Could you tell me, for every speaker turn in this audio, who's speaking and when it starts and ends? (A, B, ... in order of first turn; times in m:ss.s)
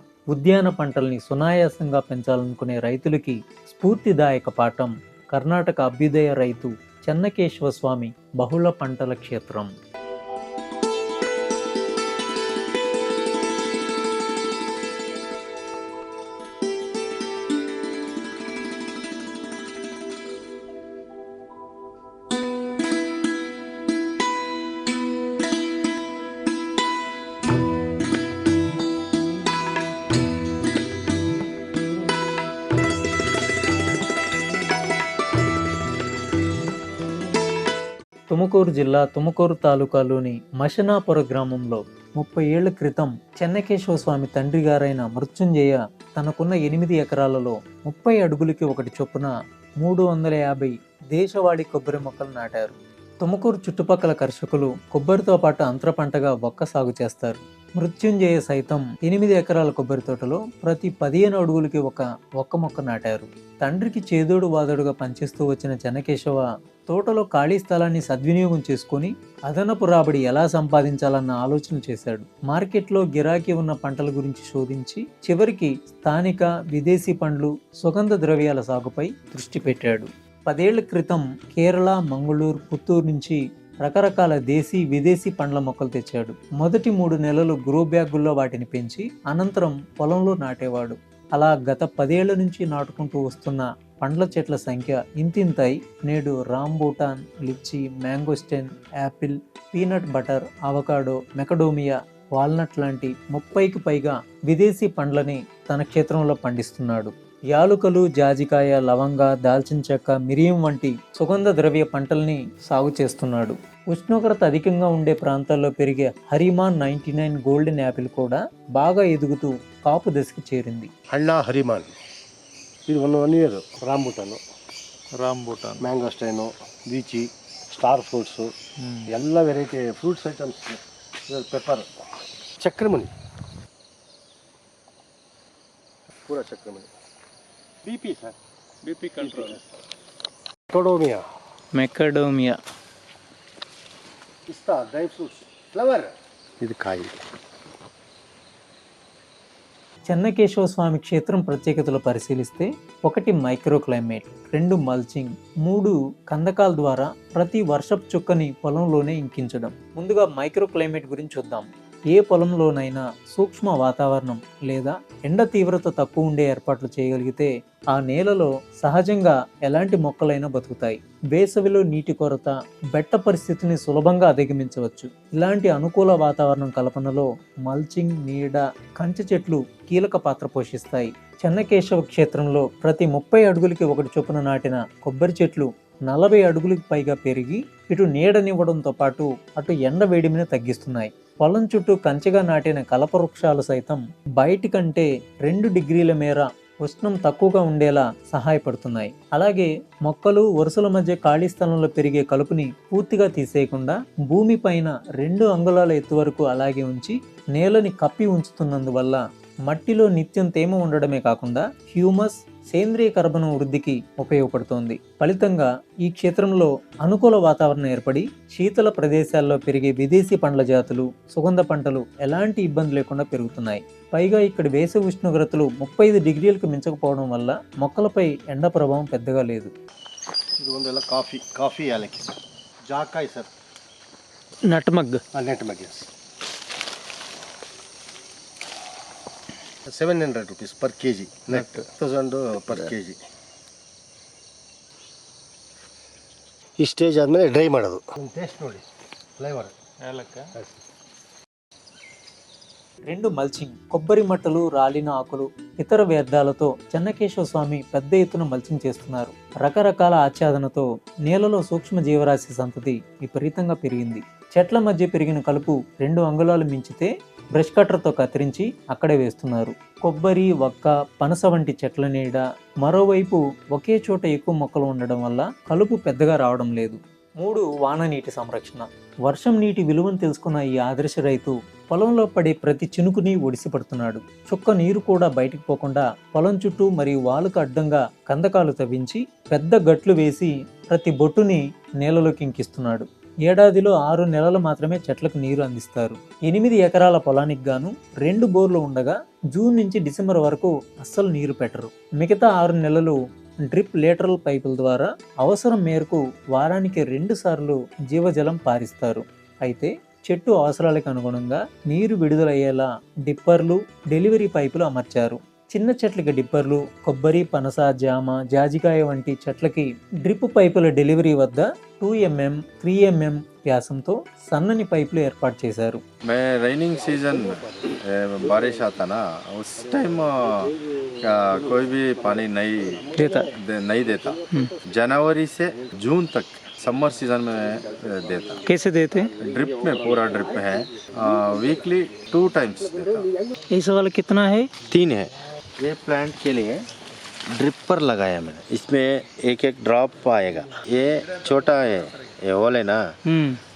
0:00.3-0:09.7 A
0:38.3-2:00.9 A
2:01.1-2:01.9 B
2:02.9-2:04.4 B
2:05.2-2:05.8 C
2:05.8-2:08.5 B
2:09.1-2:11.9 B
2:12.6-2:13.1 B
2:16.3-2:16.9 B
2:17.8-2:18.4 B
2:18.8-2:19.6 C
2:19.2-2:19.6 B
2:20.7-2:21.2 B
2:21.7-2:22.6 A
2:24.5-2:27.2 B
2:30.1-3:49.7 A
3:50.6-3:53.5 B
3:54.7-3:55.2 A
3:55.3-3:56.1 B
3:59.9-4:03.2 B
4:06.8-4:08.8 B
4:09.4-4:09.7 B
4:10.0-4:10.5 C
4:13.1-5:26.0 A
5:26.3-5:38.7 D
5:33.2-5:33.5 A
5:38.6-5:39.3 A
5:39.4-5:43.2 D
5:43.7-5:44.7 A
5:44.9-5:46.8 D
5:47.5-5:53.0 D
5:53.3-5:53.6 A